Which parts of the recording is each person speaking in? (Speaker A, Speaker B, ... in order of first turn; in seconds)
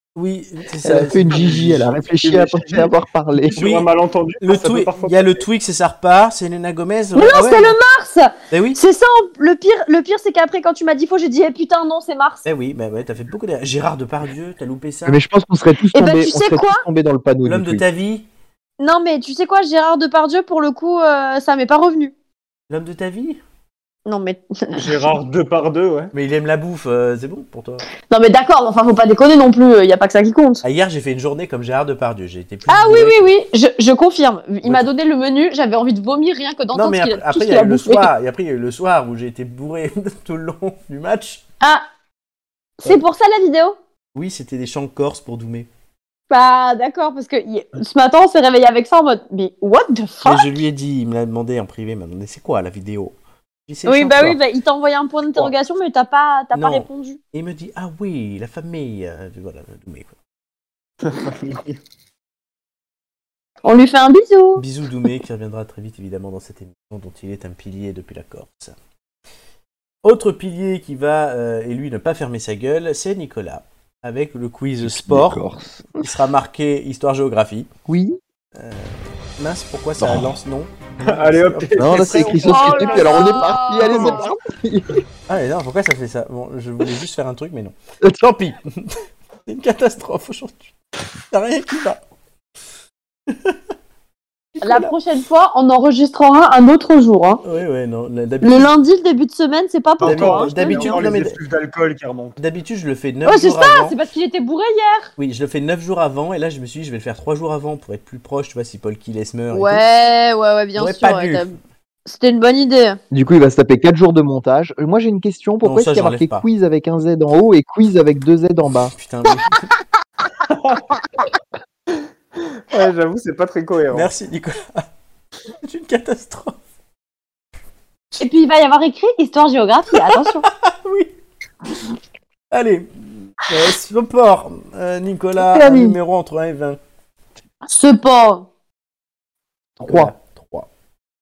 Speaker A: 0.2-1.9, 3.6-3.9, 4.4-7.8, 8.5-8.8, 12.4-15.2, 17.4-18.3, 22.7-23.4, 26.1-27.9, 30.6-33.3, 34.6-34.9, 36.7-41.4, 44.1-45.7, 50.2-53.2, 53.7-54.4, 56.5-60.1, 64.6-68.8, 70.0-77.7, 78.6-82.8, 85.3-90.7, 91.3-92.0, 93.3-93.6, 94.5-94.9, 97.4-98.7, 100.0-101.4, 102.4-104.0, 105.2-109.8, 110.8-111.6, 115.6-116.5, 118.9-119.7, 123.9-124.9, 125.6-126.6, 129.9-131.1, 132.5-136.8, 139.8-140.7
Speaker B: 0.8-3.6, 15.1-17.8, 74.8-76.1, 77.9-78.2, 80.0-80.4, 81.8-85.0, 113.1-119.0, 135.5-136.0, 139.8-140.1
Speaker C: 1.0-5.4, 24.8-26.1, 61.0-61.8, 81.0-84.3, 100.0-102.4, 120.5-120.8, 122.4-124.1
Speaker D: 7.2-12.4, 15.9-16.8, 18.8-22.1, 24.1-25.1, 28.1-30.6, 32.7-38.1, 41.6-41.9, 42.8-43.8, 46.3-50.5, 53.9-57.2, 63.6-64.6, 82.3-84.3, 94.6-97.4, 98.4-101.0, 103.2-105.1, 109.5-111.5, 112.1-113.0, 128.2-130.5, 137.7-138.5